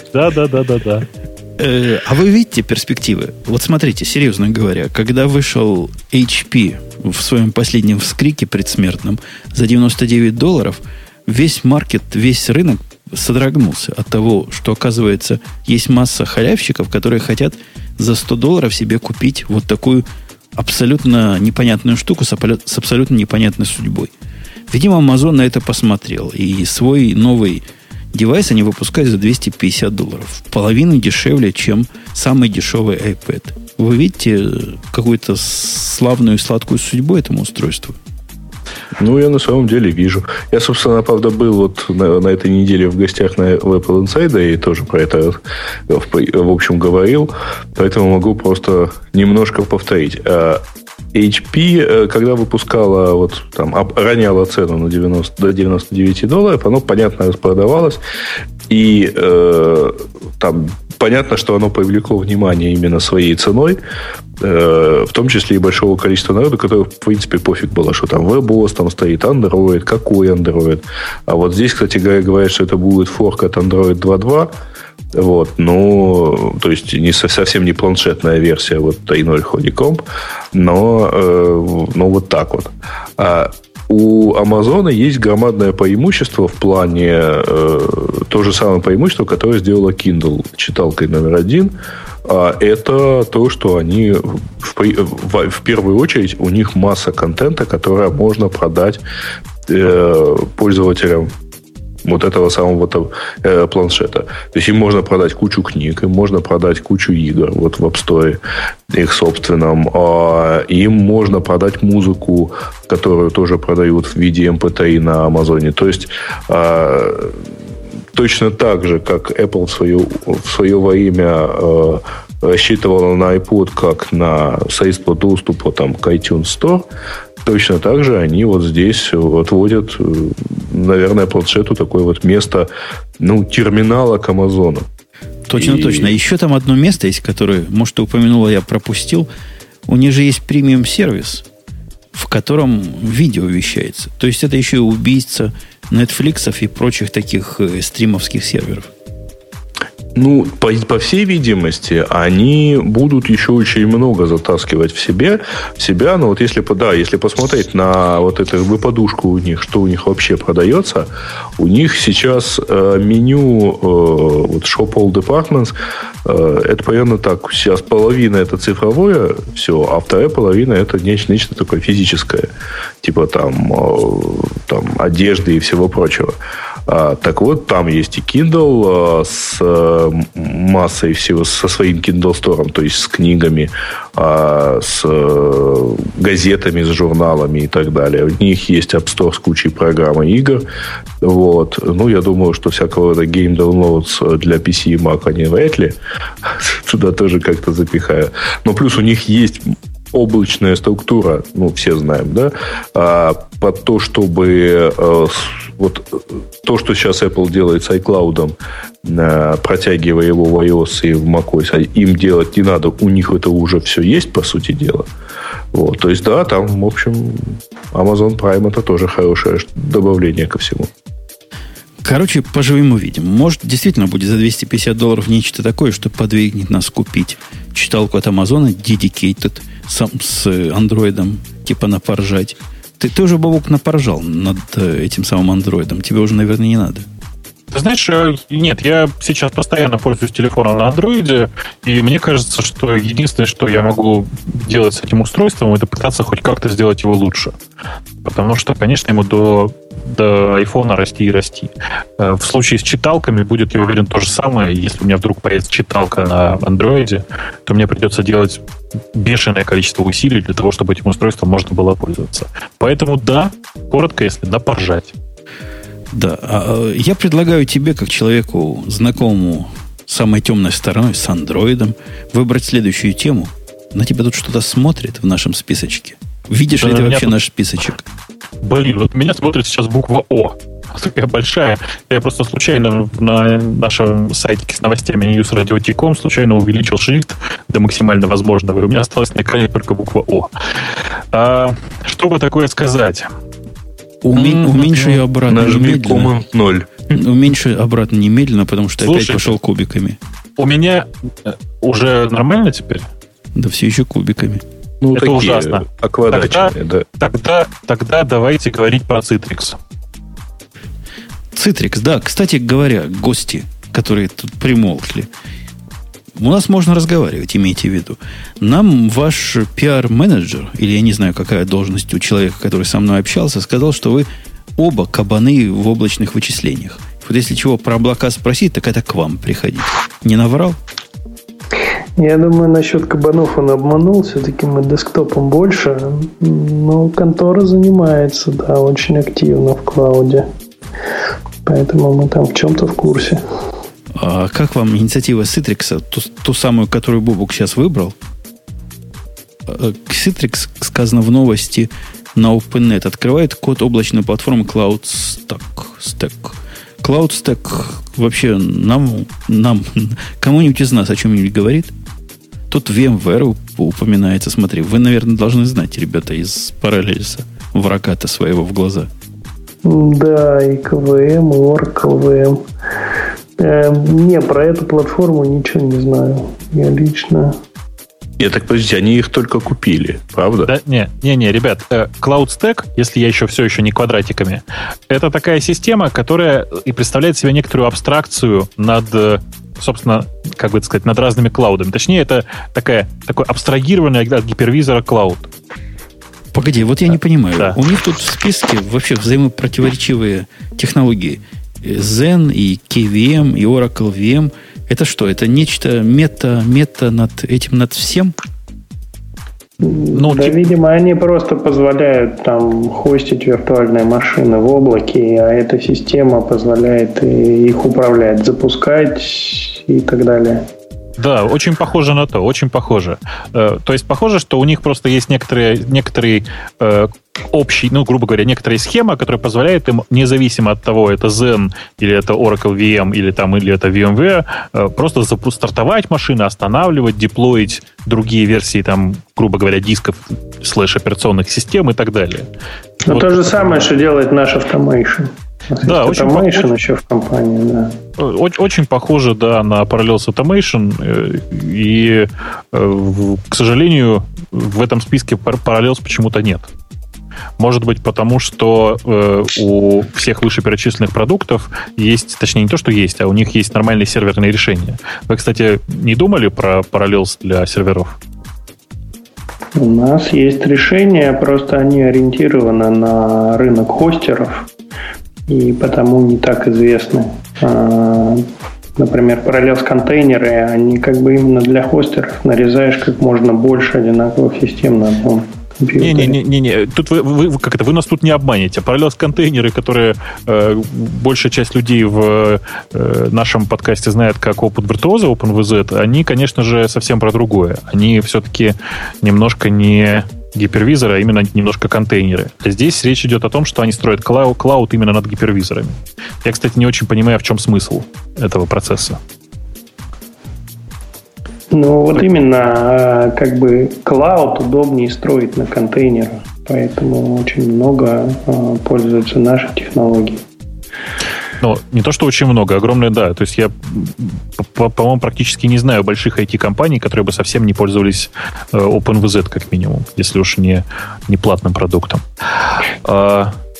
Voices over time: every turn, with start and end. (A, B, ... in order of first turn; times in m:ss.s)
0:00.1-0:01.0 A
0:01.6-0:24.1 B
0:24.7-0:38.0 B
0:39.0-0:58.0 C
0:58.7-1:03.8 C
1:04.4-1:14.5 C
1:15.1-1:39.0 C
1:39.7-1:41.3 C
1:42.0-1:57.4 C
1:58.1-2:06.9 C
2:07.4-2:14.9 C
2:15.5-2:19.3 B
2:15.5-2:16.2 C
2:19.9-2:21.4 B
2:22.1-2:28.9 B
2:30.1-2:52.5 C
2:53.0-2:56.4 C
2:56.9-3:10.6 C
3:11.2-3:35.1 C
3:35.7-3:40.9 C
3:42.0-3:57.1 B
3:57.7-4:07.6 A
4:08.2-4:18.6 A
4:19.1-4:25.1 A
4:26.1-4:38.0 B
4:36.8-4:37.4 A
4:38.6-4:53.3 A
4:54.2-4:56.3 B
4:54.4-4:55.2 A
4:55.5-4:56.9 C
4:57.1-5:00.2 B
4:59.0-4:59.6 A
5:00.6-5:03.1 A
5:03.5-5:04.6 B
5:05.0-5:07.0 C
5:05.1-5:09.8 A
5:11.5-5:15.3 B
5:16.4-5:30.8 B
5:32.2-5:40.5 D
5:41.6-5:43.4 D
5:44.1-5:48.2 B
5:49.6-6:01.9 B
6:02.7-6:09.1 B
6:09.8-6:12.6 D
6:13.6-6:17.6 D
6:18.4-6:20.7 C
6:20.6-6:35.5 A
6:36.5-6:48.3 B
6:49.8-7:00.6 D
6:50.1-6:50.6 A
7:01.2-7:22.5 A
7:23.0-7:23.9 A
7:23.0-7:28.0 D
7:25.8-7:26.7 A
7:28.2-7:36.7 A
7:37.6-7:48.2 A
7:49.8-7:54.7 D
7:55.5-7:58.4 D
7:59.0-8:06.4 D
8:06.0-8:29.2 A
8:31.7-8:40.4 D
8:41.6-8:52.2 A
8:53.0-8:53.5 A